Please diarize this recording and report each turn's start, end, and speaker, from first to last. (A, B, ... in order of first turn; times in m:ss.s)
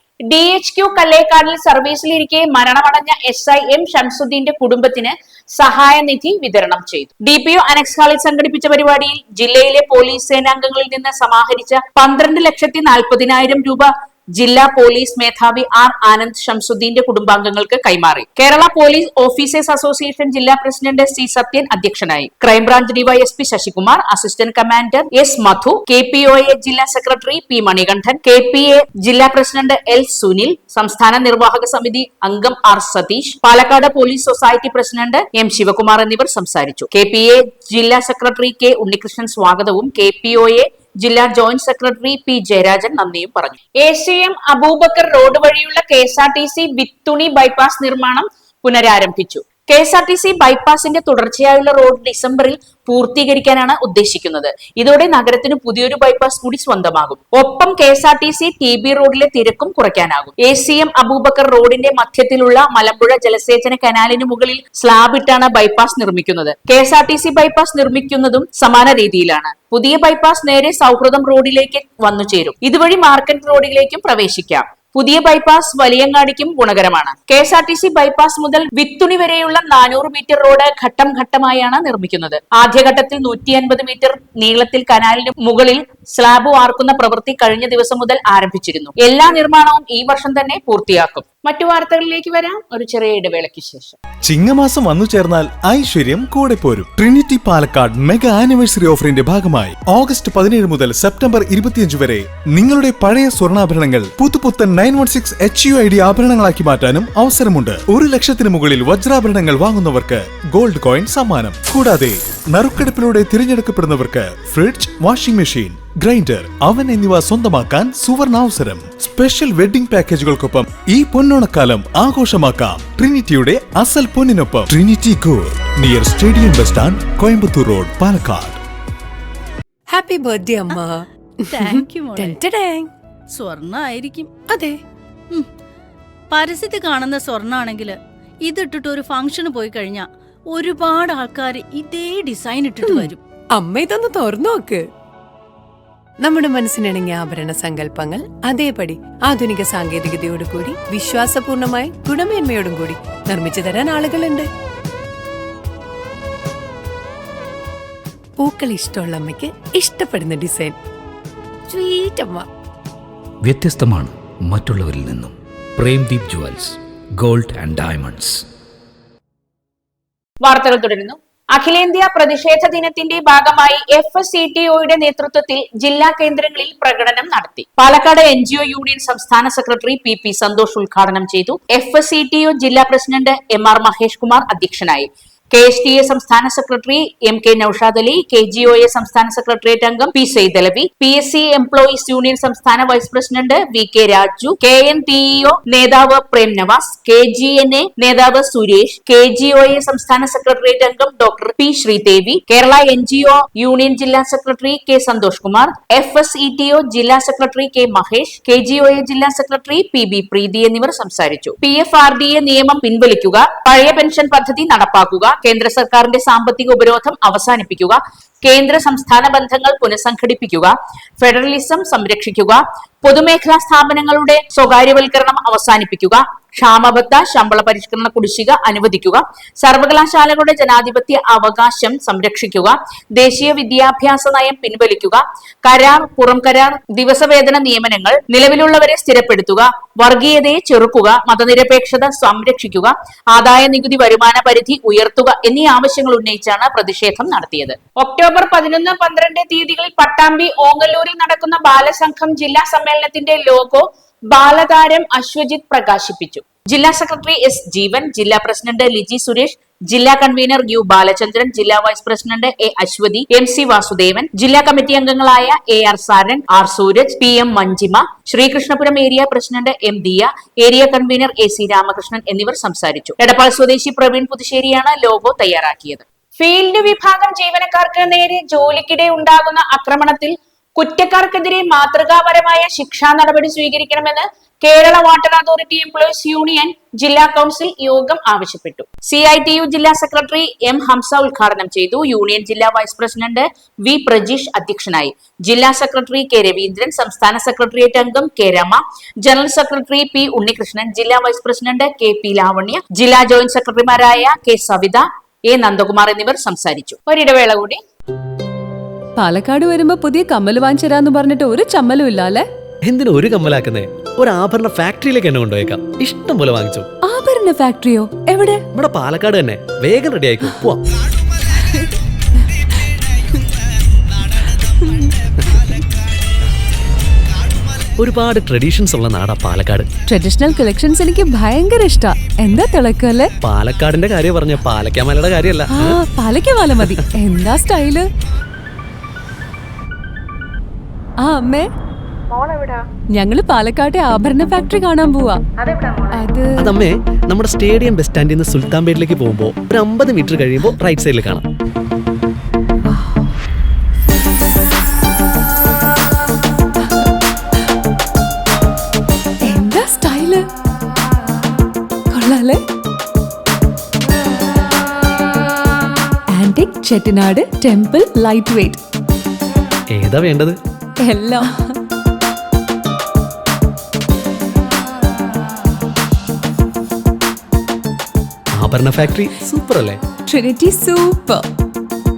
0:00.3-1:34.0 A
1:34.2-2:08.6 B
2:09.9-2:12.9 C
2:11.5-2:12.4 D
2:13.3-2:14.7 D
2:16.3-2:23.2 D
2:22.8-2:24.8 C
2:26.2-2:34.5 C
2:38.4-2:40.8 C
2:41.7-2:42.5 C
2:43.4-2:48.4 E
2:50.4-5:07.8 A
5:09.2-5:12.4 F
5:12.8-5:16.9 G
5:17.1-5:18.6 F
5:18.7-5:20.8 G
5:28.0-5:29.9 G
5:30.1-5:33.3 F
5:33.4-5:36.0 G
5:35.7-5:38.1 F
5:41.2-5:41.7 F
5:43.2-5:45.4 F
5:46.1-5:46.6 F
5:46.6-5:51.4 G
5:59.5-6:00.4 F
6:02.1-6:02.6 F
6:06.3-6:08.8 F
6:09.9-6:10.6 G
6:11.0-6:11.6 F
6:18.6-6:20.0 G
6:20.3-6:21.4 F